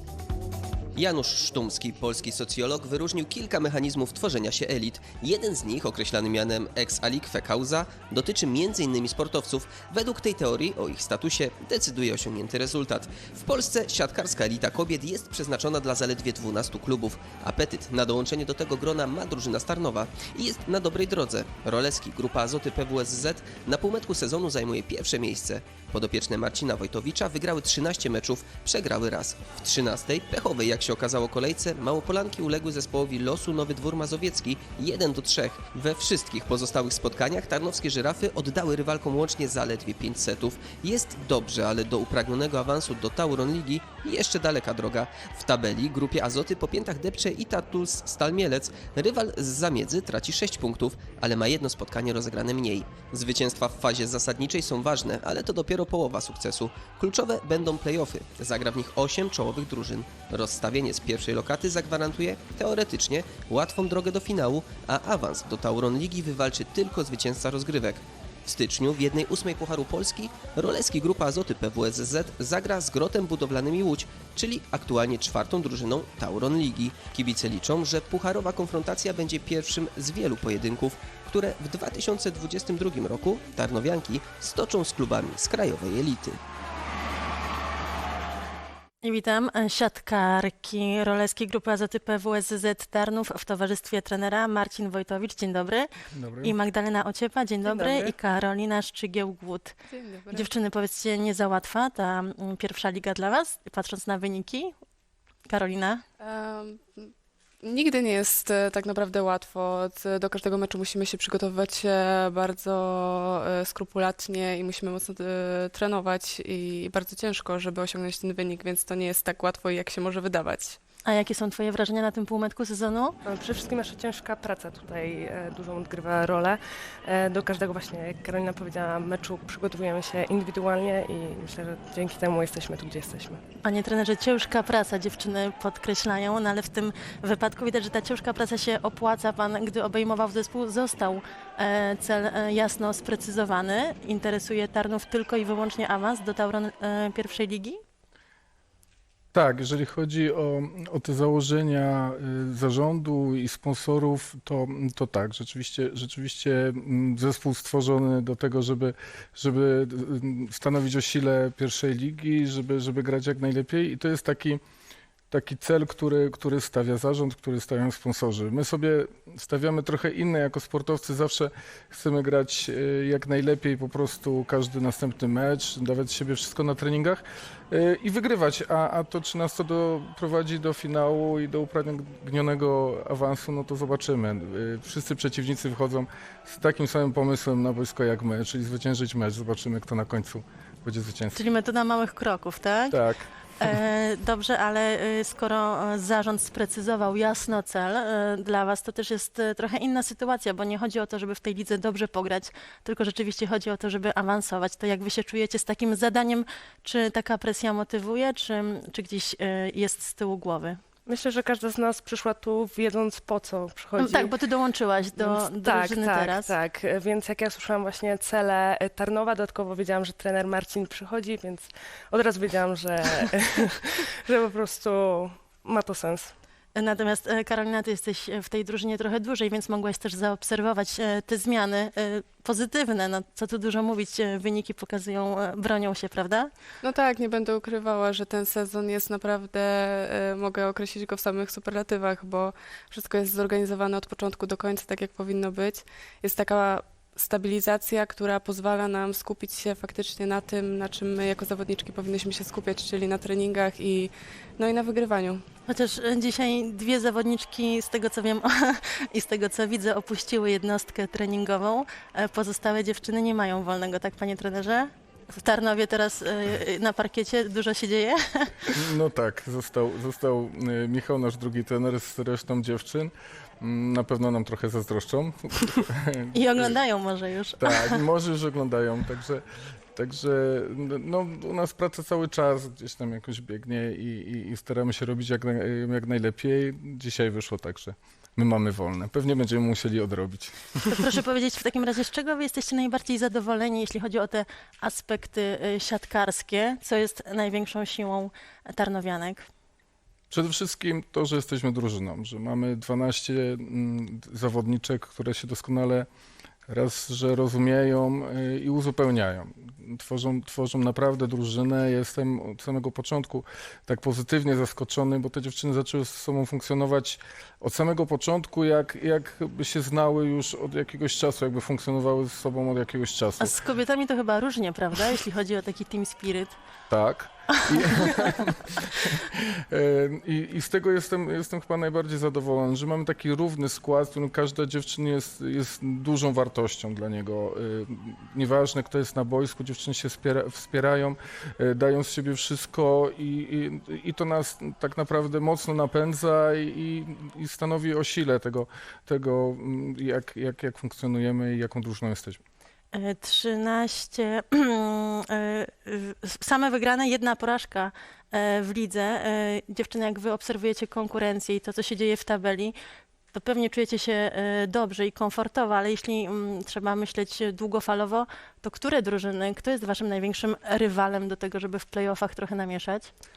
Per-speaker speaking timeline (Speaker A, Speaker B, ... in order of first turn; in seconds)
Speaker A: 1.0-86.4
Speaker B: 89.0-95.9, 96.4-99.8, 100.3-104.7, 105.5-106.0, 121.0-123.2, 133.6-147.8, 191.3-193.0, 193.6-210.8, 214.0-216.6, 226.8-236.5, 255.7-268.7, 276.3-278.0, 290.9-299.4, 323.4-326.6, 352.9-362.7, 363.3-373.1
Speaker C: 96.1-96.6, 149.3-164.6, 165.3-191.4, 192.9-193.3, 268.7-276.8, 277.6-290.9, 300.3-306.1, 306.7-323.5, 326.9-352.4
Speaker D: 97.7-98.1, 123.2-133.4, 211.1-214.3, 215.2-226.3
Speaker E: 99.9-100.5, 106.2-107.1, 107.6-120.8, 236.8-255.4